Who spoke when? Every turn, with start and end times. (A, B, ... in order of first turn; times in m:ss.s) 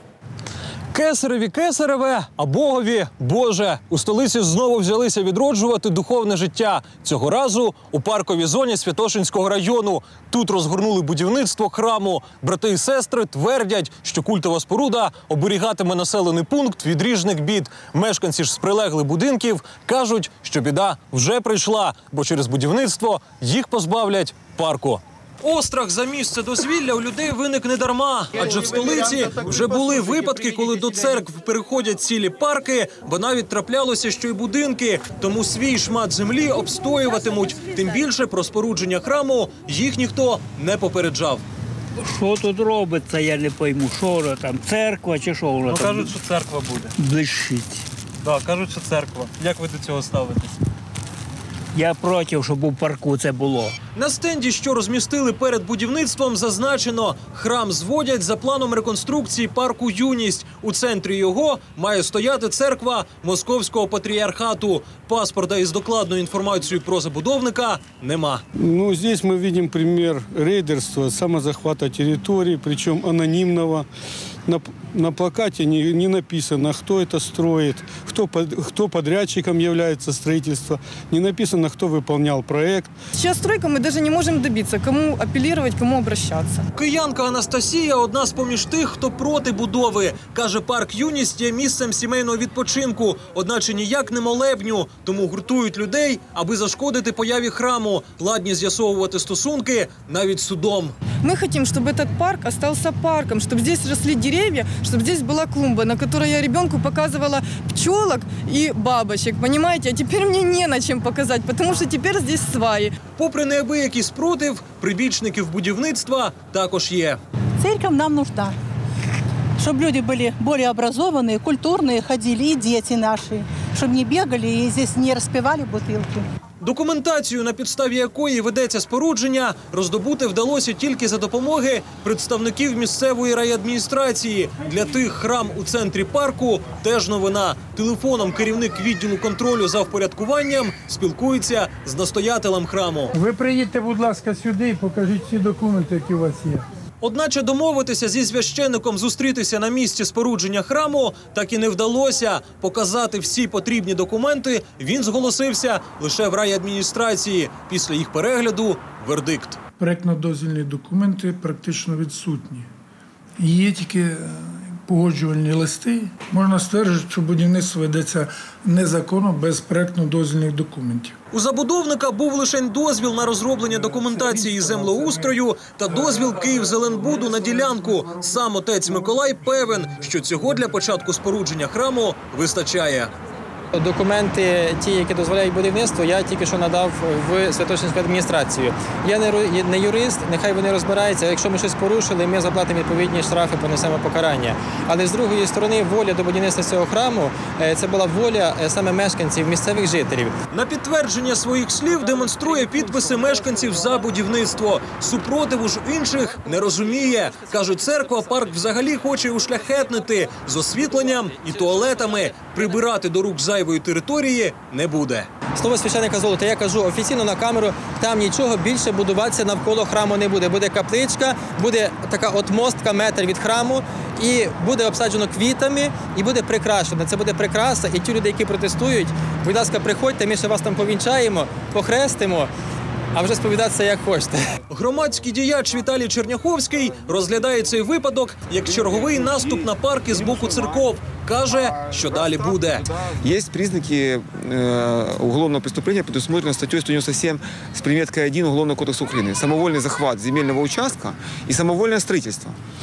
0:00.9-0:41.4 A
0:42.0-0:46.2 B
0:45.7-0:47.0 A
0:47.0-0:47.8 B
0:48.2-0:50.6 A
0:51.7-0:53.8 B
0:54.0-1:08.4 A
1:08.6-1:13.9 C
1:14.5-1:22.9 C
1:23.1-1:26.7 D
1:26.8-1:41.0 A
1:41.2-1:53.0 D
1:53.2-1:57.2 A
1:57.6-1:58.6 E
1:59.6-2:06.3 E
2:06.6-2:23.1 A
2:23.1-2:26.7 F
2:27.0-2:39.6 A
2:39.8-2:42.7 F
2:43.4-2:51.2 F
2:51.3-3:03.1 A
2:54.0-2:55.3 F
3:03.7-3:20.3 G
3:20.5-3:35.3 A
3:35.6-3:52.5 G
3:53.1-3:54.4 G
3:54.7-4:02.9 A
3:58.7-4:00.8 H
4:01.6-4:12.6 H